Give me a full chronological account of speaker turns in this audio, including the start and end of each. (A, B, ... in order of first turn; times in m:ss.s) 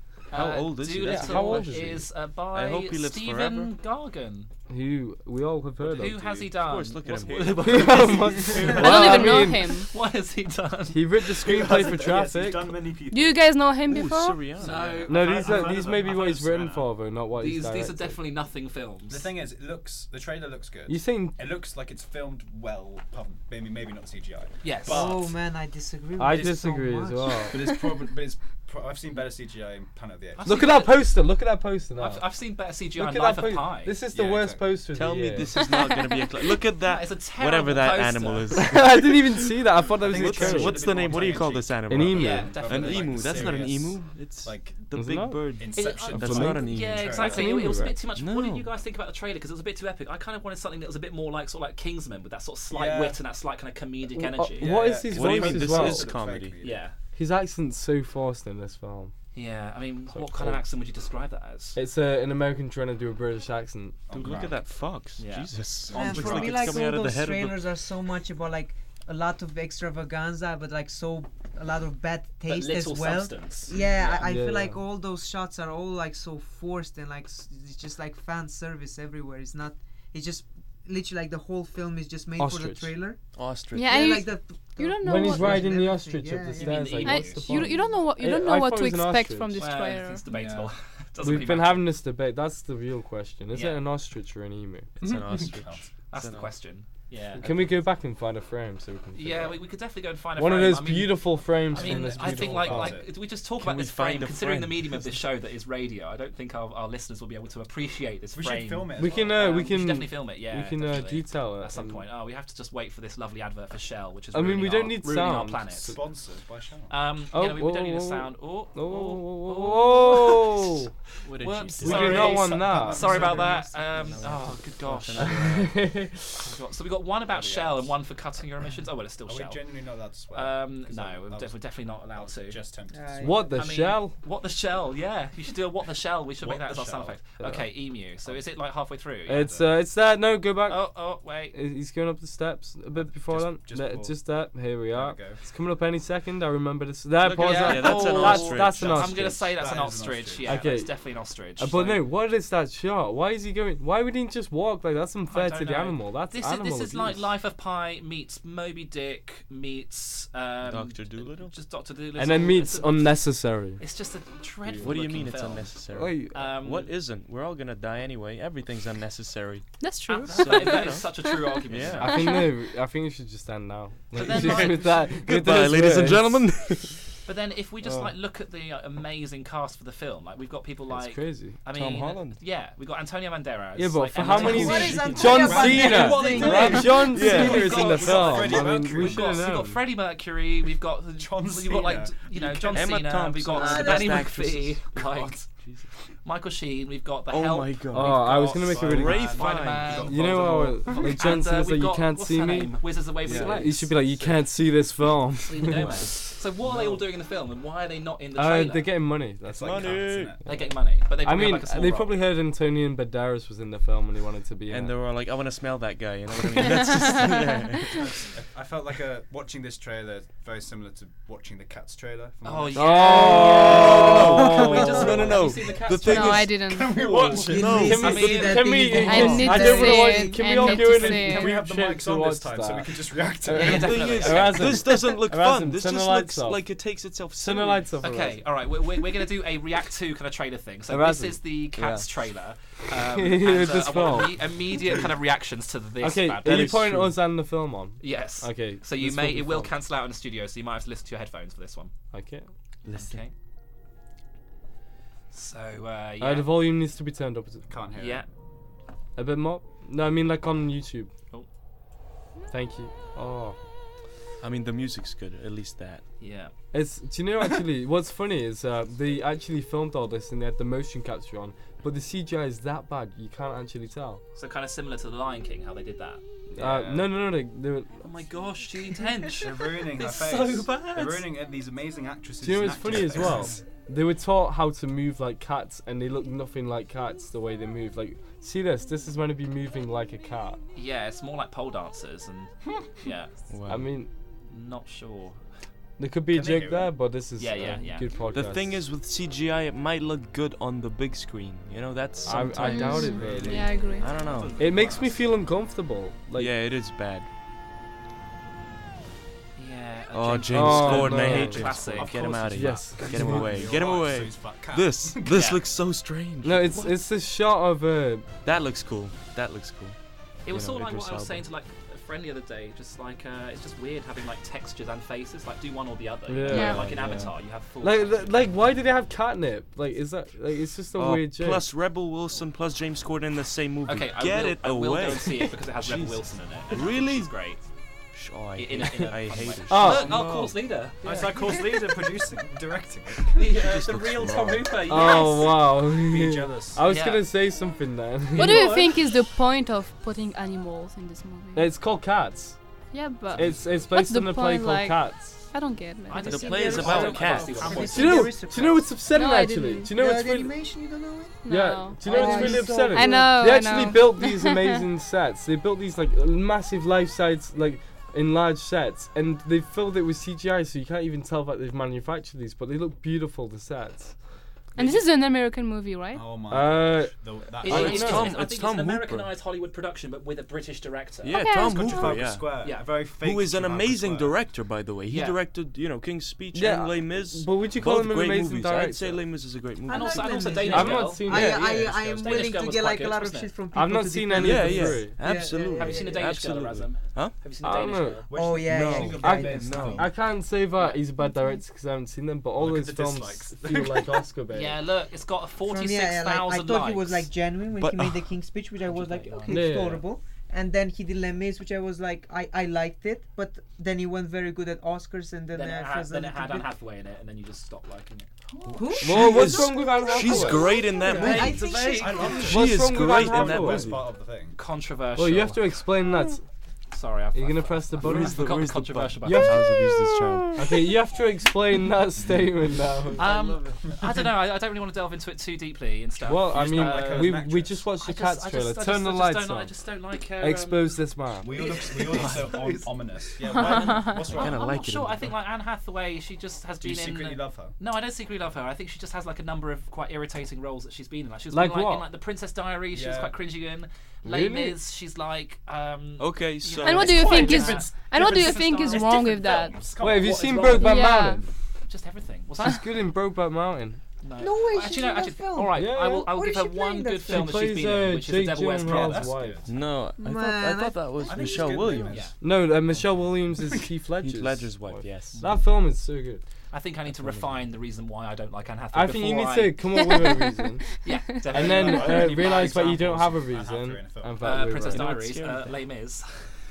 0:00.3-0:04.5 A
0:00.3-0:02.0 B
0:01.0-0:02.0 C
0:02.5-0:03.7 B
0:04.7-0:06.3 C
0:05.8-0:11.8 A
0:06.4-0:08.1 B
0:07.6-0:09.7 C
0:08.0-0:09.1 D
0:08.7-0:09.9 E
0:10.9-0:12.7 C
0:11.4-0:13.5 D
0:13.1-0:14.5 E
0:13.9-0:15.0 B
0:14.6-0:15.7 A
0:14.6-0:16.9 D
0:15.1-0:18.2 C
0:17.4-0:19.3 A
0:19.1-0:25.4 D
0:20.9-0:21.4 C
0:24.6-0:25.1 A
0:24.9-0:27.4 F
0:26.2-0:27.6 C
0:27.5-0:30.7 D
0:30.4-0:31.0 A
0:30.4-0:32.2 C
0:32.0-0:34.0 A
0:33.0-0:35.5 C
0:34.1-0:34.8 D
0:34.9-0:39.2 B
0:35.6-0:36.1 E
0:36.8-0:38.7 A
0:38.6-0:41.0 C
0:40.0-0:44.8 D
0:40.1-0:47.2 B
0:41.9-0:42.6 C
0:42.2-0:43.6 A
0:45.0-0:45.5 C
0:45.5-0:47.7 D
0:45.8-0:54.9 A
0:46.2-0:47.9 C
0:48.2-0:48.7 B
0:52.7-0:53.2 D
0:54.2-0:56.1 C
0:54.6-0:56.9 D
0:55.1-0:56.6 B
0:56.6-0:57.0 A
0:57.2-0:59.1 C
0:59.3-1:01.8 A
1:00.1-1:00.6 C
1:01.8-1:04.0 C
1:04.1-1:04.6 D
1:04.1-1:07.6 B
1:05.2-1:05.5 A
1:05.9-1:06.8 D
1:05.9-1:23.2 F
1:12.5-1:13.8 A
1:13.7-1:14.2 D
1:14.2-1:14.8 C
1:22.4-1:22.9 C
1:23.4-1:24.3 B
1:23.7-1:25.7 E
1:23.8-1:27.0 F
1:25.0-1:29.6 C
1:26.6-1:27.4 A
1:26.8-1:27.2 D
1:27.0-1:30.2 E
1:29.6-1:31.9 A
1:30.3-1:30.7 D
1:31.2-1:34.9 C
1:33.5-1:33.8 A
1:35.0-1:35.9 D
1:35.0-1:36.5 B
1:36.1-1:37.5 A
1:37.4-1:39.6 C
1:39.2-1:56.0 A
1:40.4-1:43.0 C
1:41.7-1:43.1 D
1:43.6-1:45.2 B
1:48.3-1:49.4 D
1:49.0-1:52.0 C
1:54.3-1:56.0 C
1:55.8-1:57.0 D
1:56.9-2:00.7 A
1:57.3-2:00.9 C
2:01.2-2:02.4 B
2:01.3-2:05.4 A
2:01.8-2:03.2 C
2:01.8-2:04.4 D
2:04.1-2:05.8 B
2:05.2-2:06.4 C
2:06.4-2:09.7 A
2:07.3-2:08.0 D
2:09.3-2:13.5 D
2:10.3-2:12.6 A
2:12.9-2:13.4 F
2:13.2-2:14.2 C
2:13.5-2:19.6 A
2:16.4-2:17.2 D
2:17.4-2:17.7 C
2:19.3-2:20.8 C
2:20.7-2:21.6 A
2:21.5-2:29.5 C
2:22.9-2:25.4 D
2:27.2-2:29.1 B
2:27.3-2:32.0 A
2:28.2-2:30.7 D
2:30.4-2:30.9 C
2:31.6-2:37.3 C
2:35.3-2:43.2 A
2:40.7-2:41.5 B
2:42.2-2:43.8 C
2:43.8-2:45.7 A
2:44.8-2:49.7 B
2:45.9-2:46.3 C
2:46.3-2:46.9 A
2:49.8-2:50.8 E
2:50.1-2:52.2 A
2:50.3-2:52.2 B
2:52.0-2:56.4 C
2:52.1-2:52.5 E
2:54.2-2:55.1 A
2:54.2-2:57.0 B
2:57.3-3:15.5 A
3:00.9-3:01.6 C
3:01.7-3:02.4 B
3:03.8-3:09.8 C
3:04.3-3:07.1 F
3:04.6-3:05.5 B
3:05.7-3:06.2 D
3:06.4-3:08.0 B
3:07.3-3:09.4 D
3:11.2-3:12.8 D
3:12.7-3:15.9 B
3:13.6-3:14.3 F
3:16.2-3:24.4 A
3:17.3-3:20.3 B
3:17.9-3:19.4 C
3:18.3-3:21.0 D
3:20.0-3:22.7 C
3:23.2-3:23.7 B
3:23.3-3:26.0 C
3:25.5-3:28.9 A
3:25.7-3:26.1 B
3:26.6-3:27.0 D
3:28.4-3:29.9 C
3:29.5-3:30.5 D
3:29.6-3:30.4 B
3:30.5-3:32.2 A
3:31.2-3:34.9 C
3:34.7-3:38.0 B
3:36.8-3:37.4 E
3:37.9-3:45.3 D
3:42.4-3:46.4 A
3:42.8-3:45.3 C
3:43.3-3:48.6 B
3:46.0-3:47.2 E
3:46.5-3:48.1 D
3:47.5-3:50.6 F
3:47.7-3:56.6 C
3:48.0-3:48.8 A
3:48.9-3:51.5 E
3:50.6-3:54.4 D
3:53.5-3:54.8 A
3:53.6-3:57.9 B
3:57.4-3:58.4 C
3:58.0-4:06.9 A
4:00.9-4:02.0 C
4:03.0-4:04.4 C
4:06.0-4:09.7 C
4:06.4-4:07.2 B
4:08.0-4:11.9 A
4:12.1-4:12.5 C
4:12.8-4:13.2 B
4:12.9-4:13.3 A
4:15.3-4:16.5 A
4:16.2-4:17.7 C
4:17.7-4:18.3 D
4:18.0-4:18.3 A
4:19.2-4:21.1 C
4:22.5-4:23.6 C
4:24.4-4:26.0 B
4:26.2-4:26.5 A
4:26.7-4:34.2 C
4:34.4-4:37.1 A
4:36.5-4:38.0 C
4:38.0-4:41.3 A
4:39.4-4:43.6 D
4:42.4-4:50.6 C
4:50.8-4:53.3 A
4:53.5-4:53.9 B
4:53.7-4:54.1 C
4:54.5-4:55.4 A
4:56.0-4:58.8 C
4:56.3-4:56.9 D
4:57.4-4:58.1 A
4:58.3-5:04.6 B
5:02.3-5:03.7 C
5:02.6-5:04.2 E
5:03.2-5:03.5 D
5:04.4-5:05.0 A
5:04.5-5:05.1 D
5:04.6-5:06.5 C
5:06.4-5:07.3 B
5:09.6-5:12.2 A
5:10.1-5:16.9 B
5:10.5-5:11.7 C
5:11.8-5:15.5 D
5:12.5-5:13.7 C
5:15.3-5:15.6 A
5:16.4-5:18.3 C
5:18.4-5:20.0 B
5:20.5-5:28.6 A
5:20.5-5:21.4 B
5:26.3-5:27.0 C
5:26.5-5:27.3 B
5:26.5-5:26.9 E
5:27.8-5:31.6 C
5:31.0-5:37.3 B
5:33.9-5:37.6 A
5:38.1-5:40.6 B
5:38.6-5:41.6 A
5:39.7-5:40.2 C
5:41.0-5:43.6 D
5:43.3-5:45.6 A
5:43.5-5:44.8 B
5:44.9-5:48.8 C
5:45.0-5:45.4 E
5:45.5-5:46.8 D
5:46.9-5:47.2 A
5:48.4-5:51.7 E
5:48.4-5:48.8 A
5:51.6-5:52.6 C
5:52.9-5:56.7 E
5:53.3-5:55.4 C
5:56.1-5:58.3 A
5:56.2-5:58.1 B
5:56.3-5:59.0 F
5:56.8-5:58.1 D
5:57.9-6:00.5 C
5:59.0-5:59.9 E
5:59.9-6:01.4 F
6:01.4-6:04.9 E
6:01.5-6:14.2 C
6:02.0-6:03.4 F
6:14.8-6:16.4 E
6:14.8-6:15.0 D
6:16.1-6:18.3 D
6:16.5-6:18.3 C
6:17.6-6:21.4 A
6:17.7-6:19.3 B
6:21.2-6:30.6 B
6:21.3-6:22.2 E
6:21.6-6:24.4 D
6:22.6-6:22.9 A
6:25.1-6:25.4 A
6:26.5-6:29.3 C
6:29.9-6:31.6 A
6:29.9-6:36.2 F
6:30.7-6:32.0 C
6:31.3-6:32.3 B
6:32.2-6:33.5 A
6:33.7-6:35.2 C
6:34.3-6:37.4 B
6:35.8-6:38.3 A
6:37.6-6:38.3 C
6:38.3-6:40.1 D
6:38.3-6:39.7 F
6:38.7-6:40.1 B
6:39.2-6:44.8 C
6:40.8-6:41.0 A
6:41.2-6:41.6 E
6:42.6-6:44.2 D
6:44.5-6:47.3 A
6:45.6-6:56.7 F
6:47.8-6:48.3 B
6:48.8-6:49.8 A
6:49.5-6:50.0 C
6:55.5-6:58.3 A
6:58.6-7:02.6 F
6:58.9-7:01.8 B
6:59.0-7:00.8 C
7:01.2-7:02.4 A
7:01.3-7:04.6 D
7:02.3-7:04.0 B
7:02.4-7:04.0 C
7:04.6-7:05.7 A
7:05.2-7:06.4 C
7:06.9-7:09.7 A
7:07.4-7:08.7 C
7:08.0-7:10.6 B
7:09.2-7:09.8 C
7:10.6-7:13.4 C
7:13.2-7:17.4 A
7:13.8-7:14.3 D
7:16.3-7:19.7 C
7:16.3-7:17.8 D
7:18.0-7:41.0 A
7:20.4-7:21.5 C
7:21.4-7:24.6 D
7:23.5-7:24.2 E
7:24.1-7:25.4 B
7:26.8-7:27.8 D
7:31.5-7:32.1 C
7:32.9-7:33.4 D
7:34.2-7:34.8 C
7:36.2-7:37.4 B
7:36.8-7:39.8 E
7:37.0-7:40.7 D
7:40.0-7:41.5 C
7:40.7-7:41.5 E
7:41.8-7:42.9 A
7:42.6-7:44.0 C
7:44.2-7:49.3 A
7:44.4-7:47.6 F
7:45.7-7:46.3 C
7:47.3-7:49.6 C
7:48.8-7:49.7 D
7:49.7-7:52.3 B
7:50.2-7:52.0 F
7:51.2-7:52.4 D
7:52.1-7:52.4 A
7:52.4-7:56.4 C
7:52.9-7:53.9 D
7:54.2-7:55.4 B
7:56.7-7:59.8 A
7:57.2-7:57.7 B
7:58.9-8:00.8 C
7:59.9-8:00.9 E
8:01.0-8:03.0 A
8:01.5-8:04.6 D
8:01.5-8:05.1 C
8:04.4-8:06.5 A
8:04.9-8:05.8 B